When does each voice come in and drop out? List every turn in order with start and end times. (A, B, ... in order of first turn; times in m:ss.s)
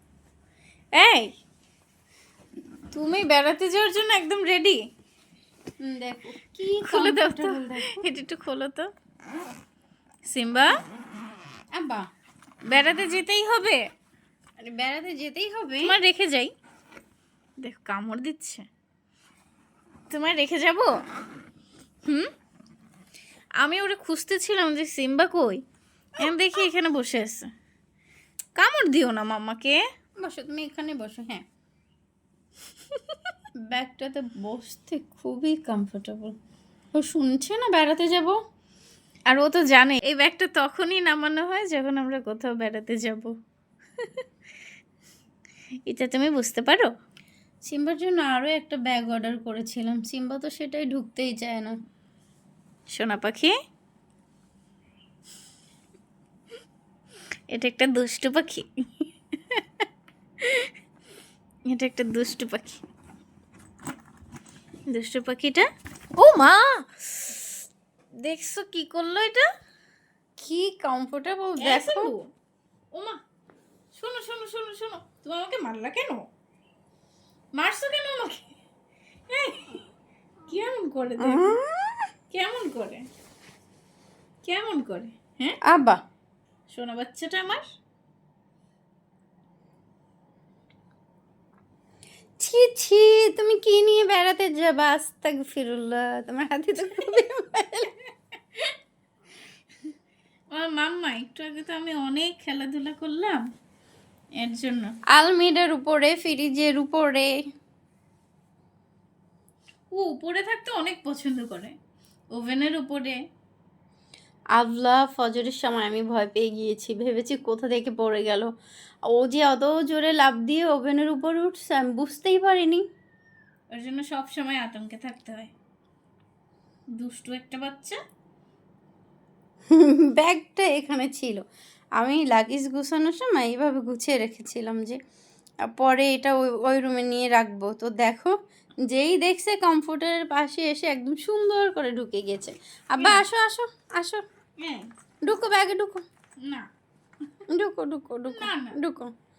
0:00.9-0:01.3 A
0:02.9-0:04.8 A
0:05.8-0:08.1 B
0:06.8-0:08.9 A
0:10.2-0:10.7 A
0:11.7-0:12.1 B
0:12.7-0:13.8 A
0:14.6-0:16.0 B
0:15.8-0:16.5 A
0:17.6-0:18.7 A
0:20.1-0:21.0 A
0:22.0-0:22.3 A
0:23.6-0:25.6 A
0:26.2-0:27.5 A
0:28.6-0:29.8 A
0:30.2-0:31.4 B
0:33.7-0:36.4 B
0:36.9-0:38.4 B
0:39.3-0:43.3 A
0:44.0-0:44.2 A
0:45.9-0:46.9 A
0:47.6-0:51.8 B
0:52.9-0:53.5 A
0:57.5-0:59.8 A
1:00.4-1:00.7 A
1:01.7-1:02.8 A
1:04.9-1:07.5 A
1:08.2-1:09.5 A
1:10.4-1:12.1 B
1:11.6-1:12.3 A
1:12.9-1:13.2 A
1:13.9-1:16.2 A
1:17.6-1:18.5 A
1:19.3-1:19.8 A
1:20.5-1:21.6 A
1:21.2-1:22.0 B
1:22.3-1:23.1 A
1:24.4-1:25.6 A
1:25.7-1:26.0 B
1:26.7-1:27.6 A
1:32.4-1:37.9 B
1:40.5-1:43.5 A
1:44.4-1:45.0 A
1:45.1-1:47.4 B
1:49.9-1:51.8 A
1:52.3-1:53.2 A
1:54.5-1:58.5 B
1:59.1-2:02.8 B
2:03.7-2:05.5 A
2:07.0-2:08.0 A
2:09.7-2:11.4 B
2:12.0-2:15.0 B
2:15.7-2:18.3 B
2:18.9-2:24.2 B
2:23.0-2:23.2 A
2:24.6-2:24.9 A
2:25.2-2:26.0 B
2:26.4-2:26.7 A
2:27.5-2:29.1 B
2:28.3-2:28.8 A